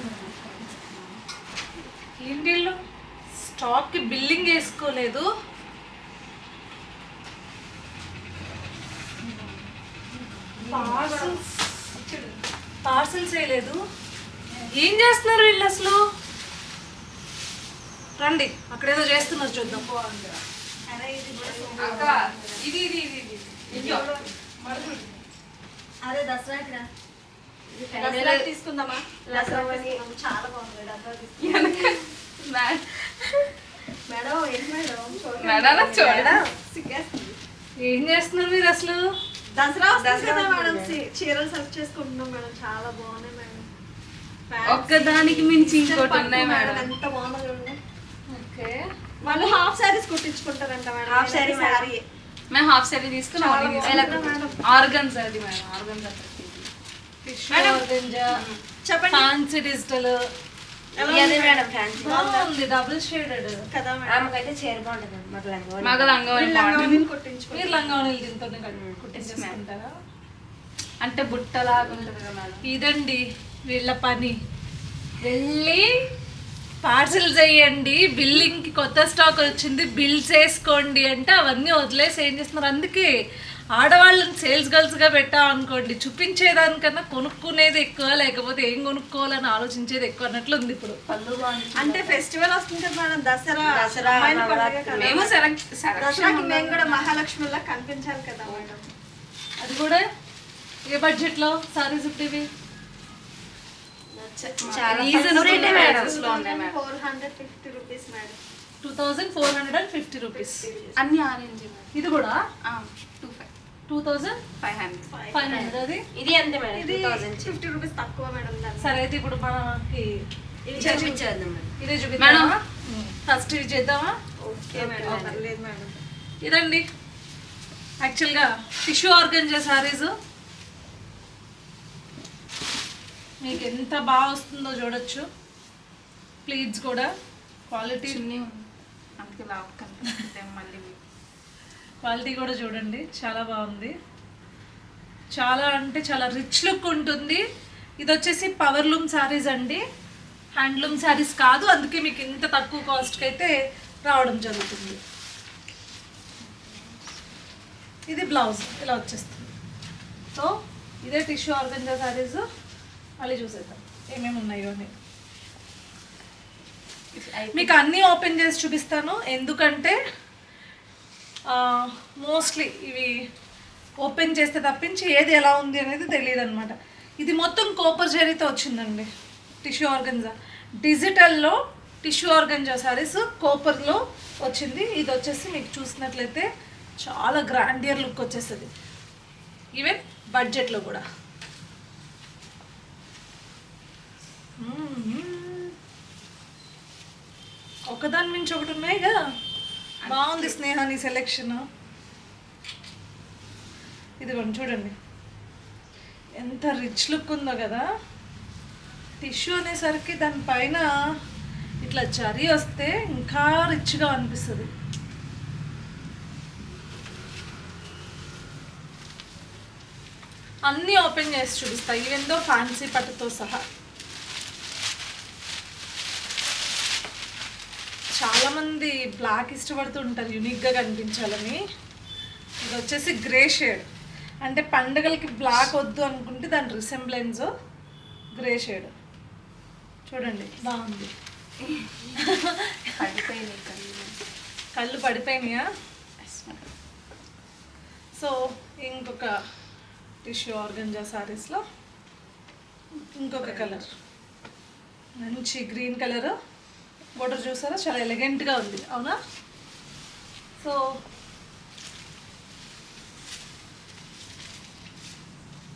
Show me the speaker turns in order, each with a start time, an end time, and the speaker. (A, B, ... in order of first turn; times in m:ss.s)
0:02.1-0:02.8 A
0:03.3-0:05.3 A
0:10.5-0:11.4 B
0:10.6-0:11.4 A
0:11.9-0:12.4 B
0:12.8-0:13.8 A
0:14.8-0:16.0 A
0:18.2-0:19.9 A
0:19.2-0:20.4 B
0:20.8-0:22.6 C
0:21.5-0:22.3 D
0:21.8-0:25.2 B
0:23.7-0:24.1 C
0:23.7-0:24.2 D
0:26.0-0:26.9 C
0:27.8-0:28.5 D
0:27.9-0:32.0 C
0:29.2-0:30.0 D
0:31.4-0:33.0 B
0:34.0-0:37.4 C
0:35.4-0:36.4 B
0:35.8-0:36.4 D
0:37.8-0:39.0 A
0:39.5-0:43.7 C
0:39.9-0:41.0 D
0:44.5-0:47.8 C
0:44.6-0:46.9 B
0:48.3-0:49.5 A
0:49.2-0:52.0 C
0:51.0-0:51.9 D
0:52.5-0:56.7 B
0:53.3-0:54.6 C
0:53.8-0:54.6 D
0:57.2-0:58.4 A
0:57.5-0:57.8 C
0:58.3-0:58.6 B
0:58.8-0:59.3 C
0:59.1-1:00.2 A
1:01.0-1:02.2 C
1:01.0-1:02.5 D
1:02.0-1:03.7 A
1:03.7-1:04.2 C
1:04.0-1:06.2 D
1:05.8-1:07.0 B
1:06.3-1:08.1 C
1:07.5-1:09.9 A
1:08.7-1:09.0 D
1:09.2-1:09.6 B
1:11.0-1:12.6 B
1:12.7-1:14.4 A
1:15.2-1:15.9 A
1:16.8-1:23.1 A
1:23.8-1:31.0 A
1:31.1-1:32.2 B
1:31.7-1:35.4 C
1:33.6-1:35.3 D
1:34.9-1:37.2 B
1:36.0-1:38.8 C
1:39.6-1:40.0 A
1:40.9-1:42.5 A
1:44.1-1:48.4 C
1:44.4-1:46.8 B
1:44.6-1:46.1 D
1:45.1-1:46.2 A
1:48.8-1:50.7 A
1:50.3-1:51.0 C
1:51.0-1:51.9 B
1:51.9-1:52.4 A
1:52.6-1:53.5 B
1:53.9-1:54.4 A
1:54.6-1:55.1 B
1:55.1-1:55.7 C
1:55.3-1:56.0 A
1:55.4-1:57.6 D
1:56.7-1:57.2 A
1:56.9-1:59.0 C
1:58.8-2:00.1 A
2:00.6-2:01.2 C
2:00.7-2:01.7 D
2:00.8-2:01.2 A
2:01.8-2:04.1 A
2:02.2-2:02.5 B
2:04.4-2:06.0 C
2:04.7-2:05.4 D
2:06.4-2:06.8 A
2:08.0-2:10.1 A
2:13.4-2:15.2 A
2:16.4-2:17.1 A
2:17.7-2:18.2 A
2:18.0-2:21.0 B
2:22.0-2:23.9 A
2:25.3-2:27.4 A
2:28.0-2:29.8 A
2:30.5-2:33.5 A
2:34.0-2:35.0 A
2:36.4-2:37.2 B
2:38.1-2:39.5 A
2:40.3-2:42.4 A
2:43.2-2:44.9 A
2:47.1-2:47.8 B
2:47.5-2:50.0 A
2:51.5-2:53.1 A
2:54.0-2:59.1 A
2:59.6-3:06.5 A
3:07.0-3:08.7 A
3:09.7-3:11.0 A
3:14.6-3:15.7 A
3:17.9-3:19.1 A
3:20.0-3:20.6 B
3:20.0-3:21.6 A
3:24.2-3:24.9 A
3:26.4-3:27.8 A
3:29.2-3:30.8 A
3:31.8-3:34.7 A
3:40.6-3:43.6 A
3:48.2-3:51.6 A
3:52.6-3:53.8 A
3:54.4-3:57.5 A
3:58.3-3:58.9 A
4:00.1-4:01.1 A
4:02.2-4:02.8 A
4:03.0-4:04.2 B
4:04.7-4:05.6 A
4:06.2-4:06.6 B
4:08.2-4:09.3 A
4:10.2-4:11.6 A
4:13.1-4:13.8 A
4:13.4-4:13.8 B
4:15.2-4:16.3 A
4:17.2-4:19.2 A